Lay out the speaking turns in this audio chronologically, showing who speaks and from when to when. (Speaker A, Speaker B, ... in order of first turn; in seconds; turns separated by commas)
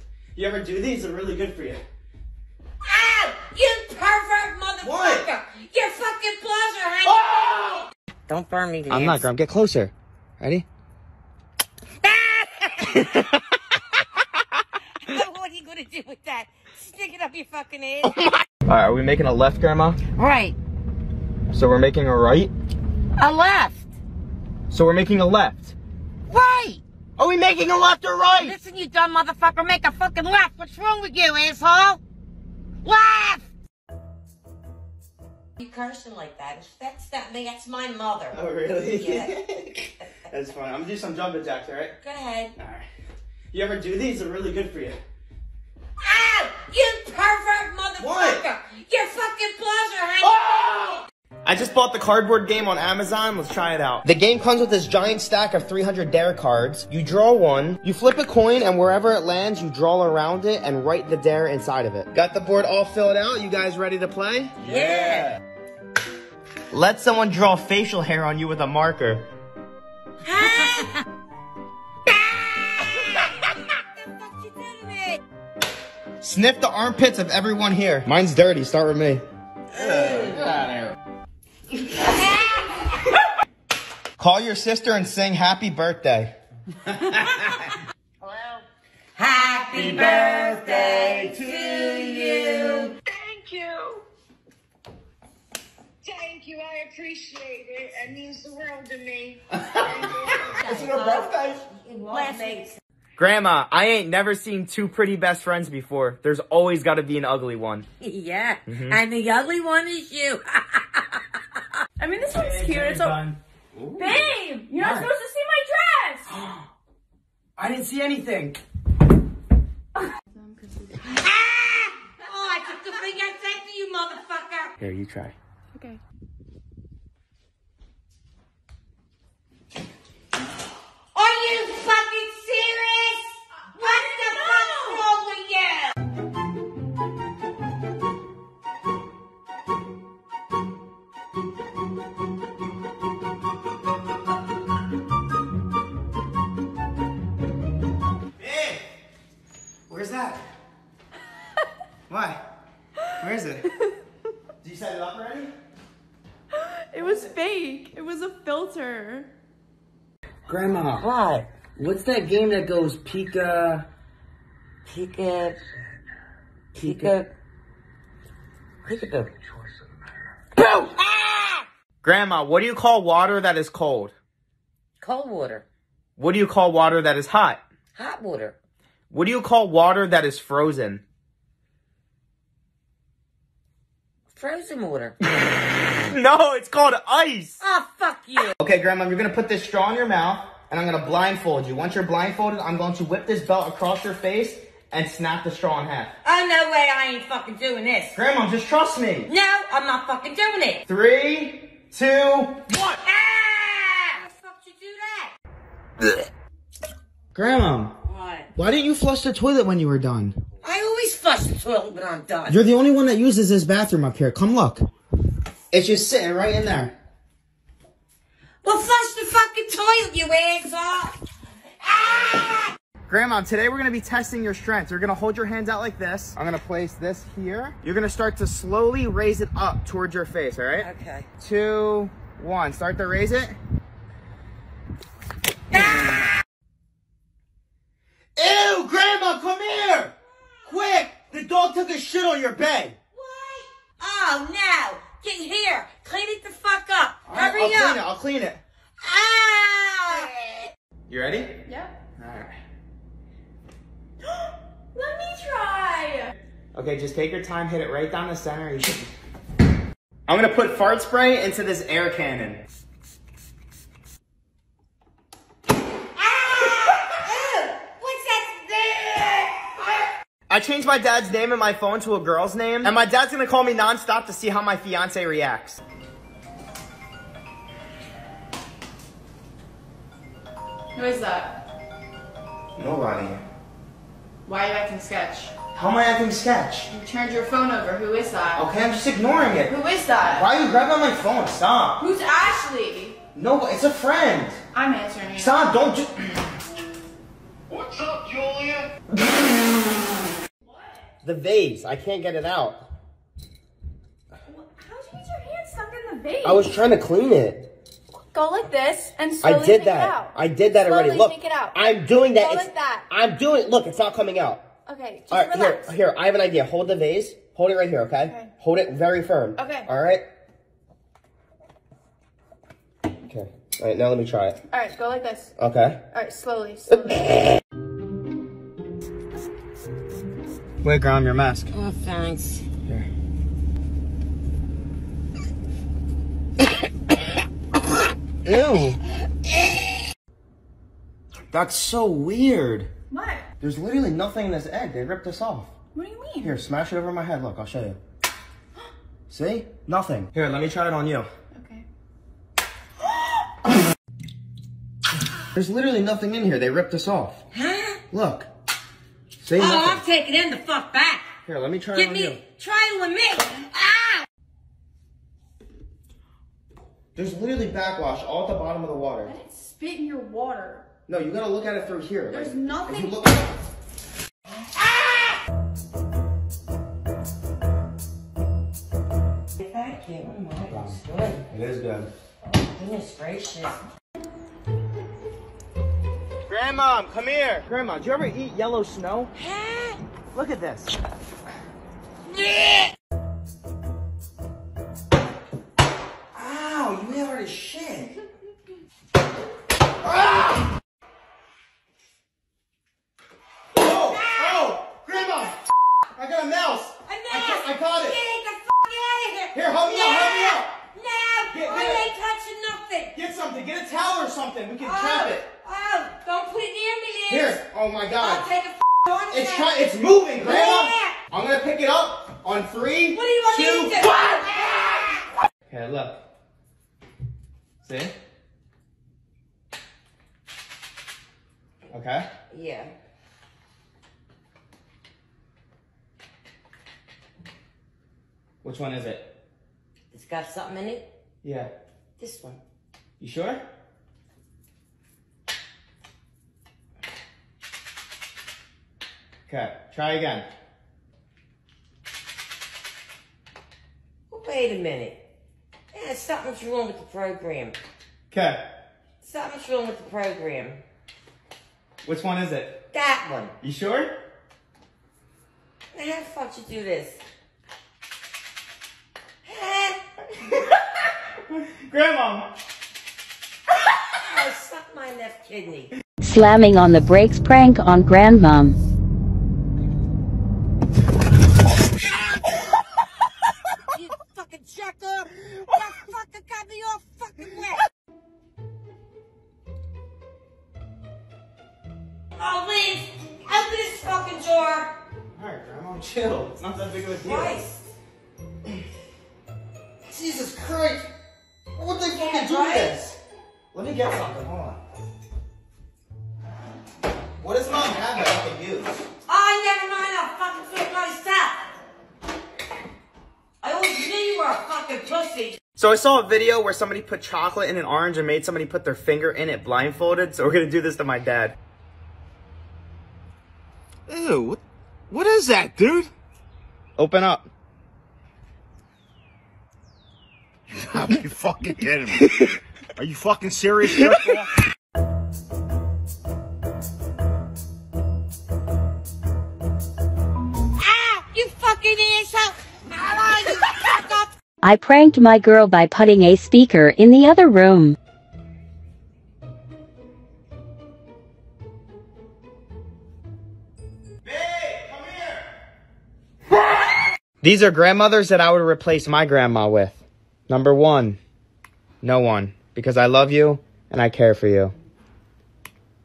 Speaker A: 0.3-1.8, Speaker B: 2.8-7.2, Speaker A: 4.8-5.3, Speaker A: 7.0-7.8, Speaker B: 8.3-9.3, Speaker A: 8.9-10.7, Speaker B: 12.0-13.8, Speaker B: 15.0-18.1, Speaker A: 18.0-20.0, Speaker B: 20.1-20.6, Speaker A: 21.5-22.5, Speaker B: 23.2-23.8, Speaker A: 24.7-25.7, Speaker B: 26.3-26.8, Speaker A: 27.2-28.6, Speaker B: 28.4-32.0, Speaker B: 32.8-33.4, Speaker B: 35.6-38.4, Speaker A: 38.3-42.0, Speaker B: 38.9-39.3, Speaker B: 42.0-42.5, Speaker A: 42.5-42.8, Speaker A: 43.5-45.0, Speaker B: 46.0-50.4, Speaker A: 48.0-48.4, Speaker A: 50.2-64.5, Speaker B: 64.6-65.3, Speaker A: 66.7-69.2, Speaker B: 70.2-71.0, Speaker B: 72.1-75.2, Speaker A: 76.2-79.2, Speaker A: 79.8-80.7, Speaker B: 79.8-80.4, Speaker B: 81.9-82.8, Speaker A: 84.2-86.3, Speaker A: 86.9-87.7, Speaker C: 88.2-88.6, Speaker B: 89.2-92.9, Speaker A: 89.7-91.8, Speaker C: 93.1-94.0, Speaker C: 96.0-100.5, Speaker A: 99.6-101.6, Speaker B: 100.2-102.8, Speaker A: 103.2-107.8, Speaker B: 108.0-111.6, Speaker A: 108.7-109.0, Speaker D: 112.0-113.2, Speaker A: 112.3-114.2, Speaker D: 114.0-116.3, Speaker A: 114.8-115.1, Speaker A: 116.2-116.7, Speaker A: 117.6-118.6, Speaker D: 120.3-121.2, Speaker B: 121.0-124.7, Speaker A: 124.8-125.3, Speaker D: 125.7-126.0, Speaker B: 131.1-135.9, Speaker D: 133.9-135.0, Speaker A: 148.4-148.8, Speaker A: 149.9-150.4, Speaker A: 152.1-152.4, Speaker A: 153.2-153.7, Speaker A: 154.6-155.5, Speaker D: 156.6-159.3, Speaker A: 160.5-161.1, Speaker B: 161.0-161.5, Speaker A: 161.8-163.9, Speaker B: 164.8-165.6, Speaker A: 166.7-167.1, Speaker B: 166.8-167.3, Speaker B: 168.8-169.3, Speaker B: 170.6-171.7, Speaker A: 172.0-174.1, Speaker B: 175.0-175.6, Speaker A: 176.2-177.6, Speaker B: 177.9-178.6, Speaker A: 179.1-181.0, Speaker B: 184.3-185.2, Speaker A: 186.0-187.6, Speaker B: 187.6-188.5, Speaker A: 188.6-196.1, Speaker B: 196.2-198.2, Speaker A: 198.1-199.3, Speaker B: 199.2-200.8, Speaker A: 200.9-202.6, Speaker B: 202.7-205.3, Speaker A: 207.3-207.9, Speaker B: 208.0-208.5, Speaker A: 208.5-210.4, Speaker B: 210.6-212.6, Speaker A: 212.5-214.8, Speaker A: 215.7-216.9, Speaker B: 218.6-221.2, Speaker B: 221.8-222.7, Speaker A: 223.1-230.9, Speaker B: 230.8-231.3, Speaker A: 231.4-233.6, Speaker B: 235.7-236.4, Speaker A: 238.3-240.1, Speaker B: 240.3-240.8, Speaker A: 240.7-242.9, Speaker B: 243.1-248.0, Speaker A: 247.3-248.6, Speaker B: 249.0-250.7, Speaker A: 251.1-251.6, Speaker D: 251.7-251.9, Speaker A: 252.2-252.5, Speaker D: 254.9-256.3, Speaker A: 256.7-259.1, Speaker A: 260.3-262.6, Speaker B: 266.1-270.1, Speaker A: 270.5-275.8, Speaker D: 280.9-281.6, Speaker A: 282.8-283.4, Speaker D: 284.4-285.5, Speaker A: 285.7-286.9, Speaker D: 286.9-288.6, Speaker A: 288.5-292.0, Speaker D: 289.7-290.4, Speaker D: 292.0-293.2, Speaker A: 293.3-294.6, Speaker D: 294.7-295.7, Speaker A: 295.3-296.1, Speaker E: 297.7-298.9, Speaker A: 301.2-302.8, Speaker D: 304.5-306.6, Speaker A: 306.4-307.7, Speaker D: 308.3-313.0, Speaker A: 309.4-314.7, Speaker D: 314.9-315.9, Speaker A: 315.3-320.2, Speaker D: 318.2-318.5, Speaker D: 319.6-319.9, Speaker A: 323.3-324.6, Speaker D: 324.7-325.5, Speaker A: 325.6-326.0, Speaker D: 326.1-327.2, Speaker A: 326.9-327.2, Speaker A: 330.8-331.7, Speaker B: 331.7-332.6, Speaker A: 338.4-339.0, Speaker A: 341.5-342.9, Speaker D: 343.1-343.4, Speaker A: 343.6-345.7, Speaker D: 345.9-346.6, Speaker A: 346.4-348.0, Speaker A: 349.3-351.3, Speaker D: 351.5-351.8, Speaker A: 355.5-357.4, Speaker B: 357.5-358.0, Speaker A: 358.1-358.5, Speaker A: 359.4-360.0, Speaker B: 359.6-361.3, Speaker A: 361.4-362.4, Speaker B: 361.9-364.2, Speaker A: 367.1-369.3, Speaker D: 369.2-370.8, Speaker A: 371.1-373.5, Speaker D: 372.3-373.1, Speaker B: 374.7-375.4, Speaker B: 379.6-381.4, Speaker A: 380.7-382.1, Speaker B: 382.4-383.8, Speaker A: 386.5-389.3, Speaker B: 389.3-390.0, Speaker A: 390.3-390.9, Speaker B: 392.3-392.9, Speaker A: 396.3-398.1, Speaker A: 400.0-400.7, Speaker A: 403.8-405.6, Speaker B: 403.9-404.7, Speaker A: 406.1-408.2, Speaker B: 407.1-413.1, Speaker A: 409.5-410.7, Speaker A: 411.5-412.1, Speaker A: 413.1-415.4, Speaker B: 414.8-417.6, Speaker A: 417.3-418.5, Speaker B: 418.2-419.8, Speaker A: 419.3-424.0, Speaker B: 420.4-421.2, Speaker B: 423.1-425.0, Speaker A: 425.7-426.2, Speaker A: 427.8-428.1, Speaker A: 431.9-432.2, Speaker B: 432.5-432.9, Speaker A: 438.6-439.3, Speaker B: 440.1-441.1, Speaker A: 441.4-441.7, Speaker B: 442.2-442.6, Speaker A: 443.2-443.6, Speaker A: 449.5-450.4, Speaker B: 454.3-455.2, Speaker B: 455.9-457.8, Speaker A: 458.3-458.6, Speaker B: 459.2-460.8, Speaker A: 462.0-462.8, Speaker B: 462.9-463.5, Speaker A: 463.6-464.1, Speaker B: 465.9-467.2, Speaker B: 469.4-470.0, Speaker A: 470.6-472.5, Speaker B: 474.1-475.9, Speaker F: 476.2-478.8, Speaker B: 482.3-482.9, Speaker B: 483.8-487.8, Speaker B: 492.4-494.9, Speaker A: 495.4-497.5, Speaker B: 497.2-497.9, Speaker A: 500.1-501.1, Speaker A: 501.7-503.2, Speaker B: 502.1-502.9, Speaker A: 503.7-504.8, Speaker A: 507.4-508.9, Speaker B: 509.3-511.6, Speaker B: 513.6-515.6, Speaker A: 515.8-521.5, Speaker A: 524.1-526.1, Speaker A: 527.0-527.5, Speaker E: 530.7-532.2, Speaker E: 533.0-534.4, Speaker B: 540.8-544.3, Speaker F: 544.6-548.0, Speaker A: 554.2-555.4, Speaker A: 557.4-561.2, Speaker A: 562.0-564.7